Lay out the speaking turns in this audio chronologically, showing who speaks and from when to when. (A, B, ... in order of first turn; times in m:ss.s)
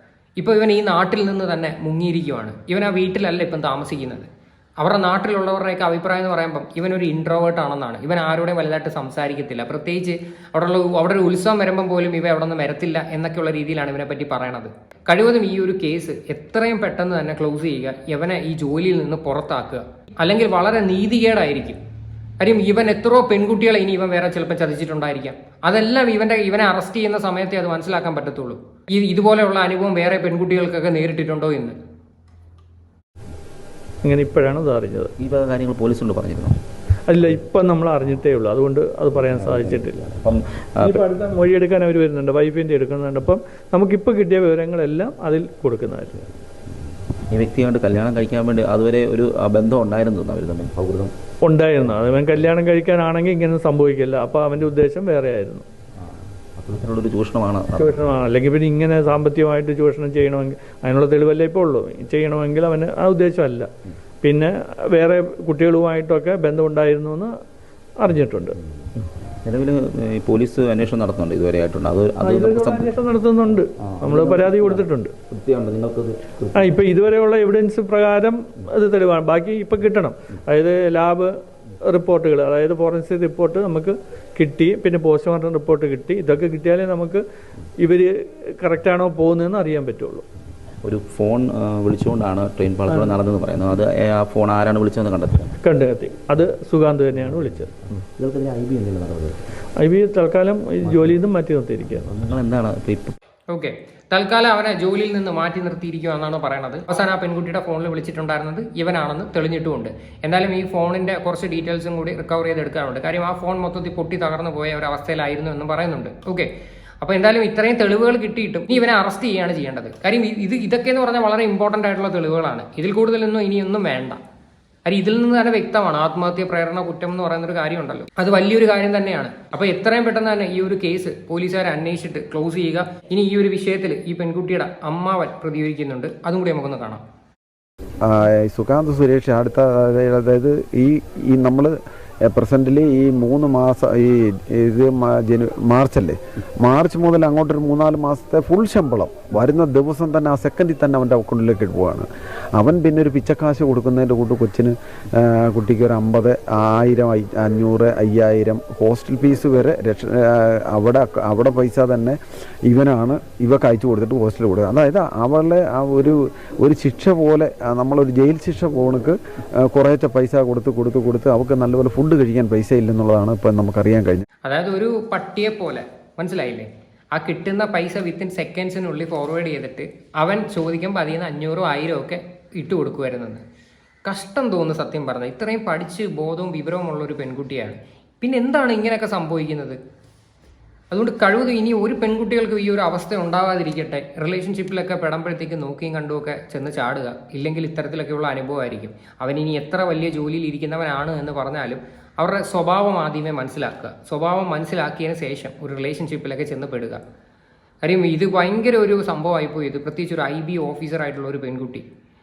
0:00.4-0:04.3 A
0:04.8-0:21.8 A
0:22.4-0:31.8 A
0:34.0-0:35.1 B
0:35.2-0:36.6 C
0:37.1-0:40.0 B
0:39.1-0:41.1 C
0:40.8-0:46.2 B
0:47.3-0:51.1 C
0:51.4-0:55.6 B
0:56.6-0:58.0 C
0:57.8-1:03.7 B
1:04.2-1:07.3 B
1:08.0-1:08.6 B
1:09.4-1:13.0 C
1:12.2-1:15.1 B
1:13.8-1:16.7 C
1:16.6-1:21.3 B
1:21.9-1:27.2 B
1:27.8-1:30.2 B
1:30.8-1:35.6 C
1:35.6-1:37.7 B
1:38.2-1:39.4 C
1:39.8-1:42.1 B
1:40.8-1:41.2 C
1:42.0-1:43.2 C
1:43.5-1:56.5 A
1:57.0-2:04.2 A
2:04.9-2:17.0 A
2:18.1-2:21.7 D
2:22.3-2:49.2 D
2:49.7-2:54.2 D
2:54.4-3:03.4 A
3:04.1-3:09.8 A
3:10.9-3:27.0 A
3:27.8-3:31.8 A